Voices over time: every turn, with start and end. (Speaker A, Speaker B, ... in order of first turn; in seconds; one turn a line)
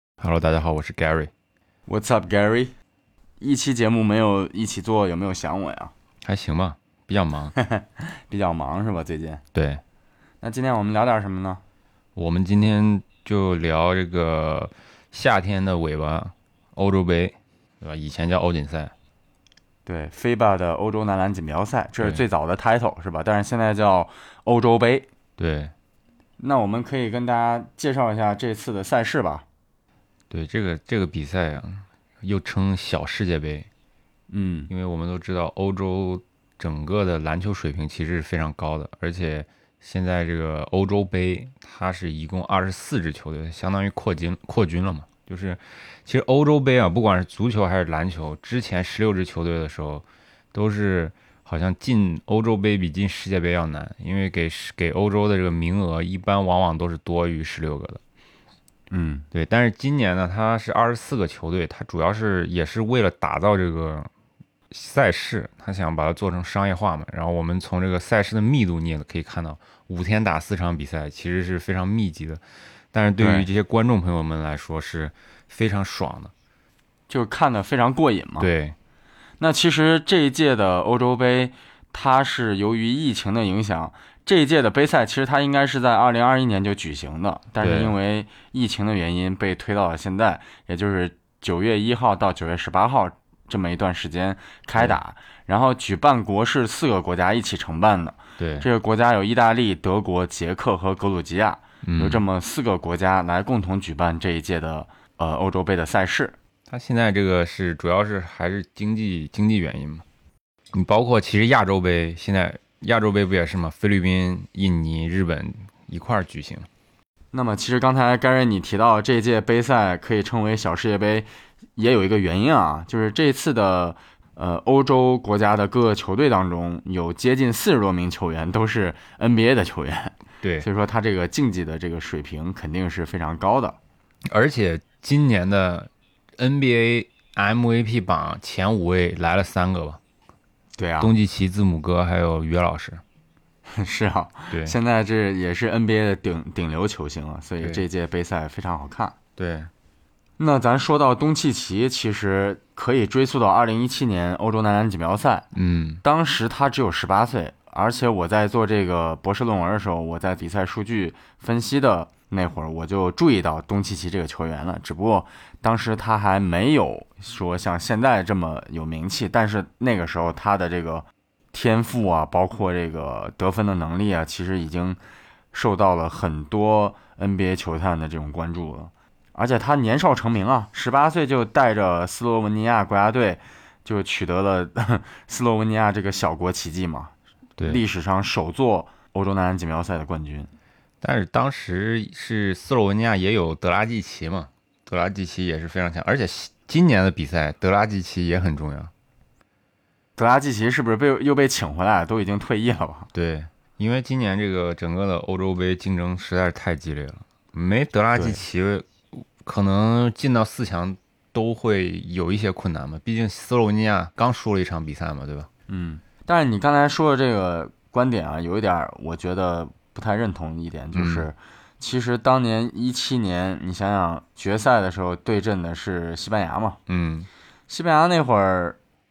Speaker A: 0.2-1.3
Speaker B: 1.9-2.7
Speaker B: 3.4-5.9
Speaker A: 6.2-7.5
Speaker B: 7.5-9.4
Speaker A: 9.5-9.8
Speaker B: 10.4-11.6
Speaker A: 12.2-18.9
Speaker B: 19.9-25.1
Speaker A: 25.4-25.7
Speaker B: 26.4-29.4
Speaker A: 30.3-33.7
Speaker B: 34.3-34.7
Speaker A: 34.7-58.0
Speaker B: 58.9-59.2
Speaker A: 59.3-64.1
Speaker A: 64.7-72.4
Speaker A: 72.9-76.3
Speaker B: 73.2-73.5
Speaker B: 77.1-78.5
Speaker A: 78.4-78.7
Speaker B: 79.4-106.3
Speaker A: 87.6-88.0
Speaker A: 98.4-98.7
Speaker A: 101.8-102.2
Speaker A: 106.7-110.0
Speaker A: 110.7-116.7
Speaker B: 117.3-133.8
Speaker A: 134.3-140.0
Speaker B: 140.8-141.1
Speaker A: 141.0-143.0
Speaker B: 143.7-149.2
Speaker A: 144.5-144.7
Speaker A: 149.4-149.7
Speaker B: 150.4-155.5
Speaker A: 155.5-156.0
Speaker B: 156.0-175.0
Speaker B: 175.5-190.5
Speaker A: 191.0-198.9
Speaker B: 200.2-203.1
Speaker A: 203.1-215.5
Speaker B: 208.1-208.4
Speaker B: 215.7-226.8
Speaker A: 220.9-221.3
Speaker A: 226.9-227.3
Speaker B: 227.7-228.8